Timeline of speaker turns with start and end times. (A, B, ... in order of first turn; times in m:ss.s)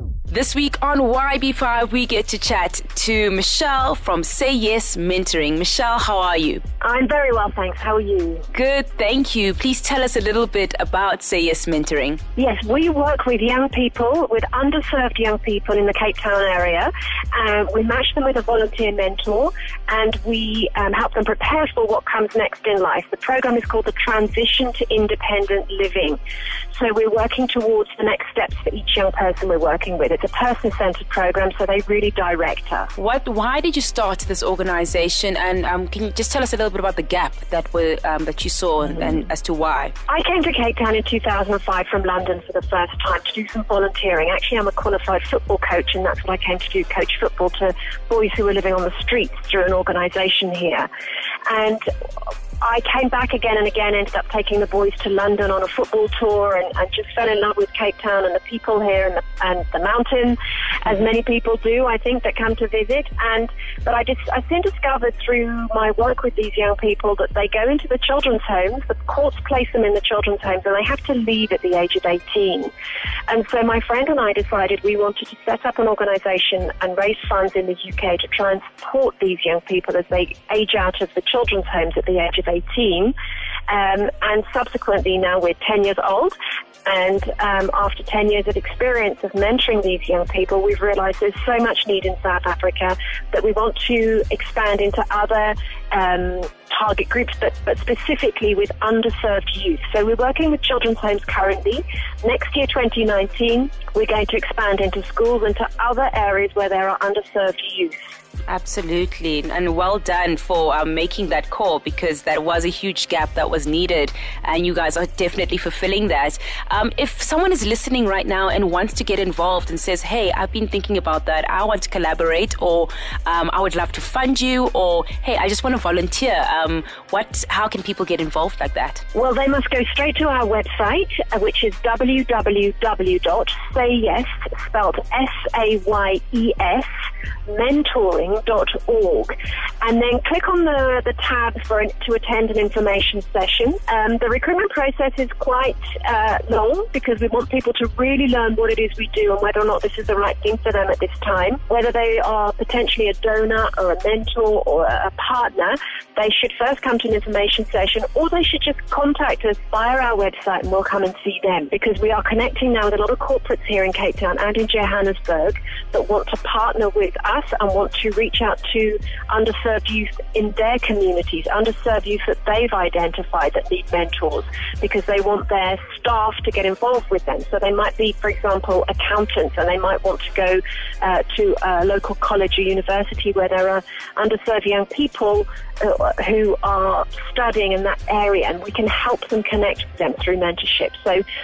0:00.3-0:06.6 A
0:06.8-0:08.5 B
0:08.5-0:12.2 A
0:12.4-0:26.2 B
0:26.7-0:32.9 B
0:33.0-0:39.9 A
0:40.1-0:50.9 B
0:51.5-0:51.9 B
0:52.6-1:12.7 B
1:13.3-1:23.1 B
1:23.7-1:48.1 B
1:48.5-2:09.0 A
2:09.1-2:16.9 B
2:17.5-3:11.2 B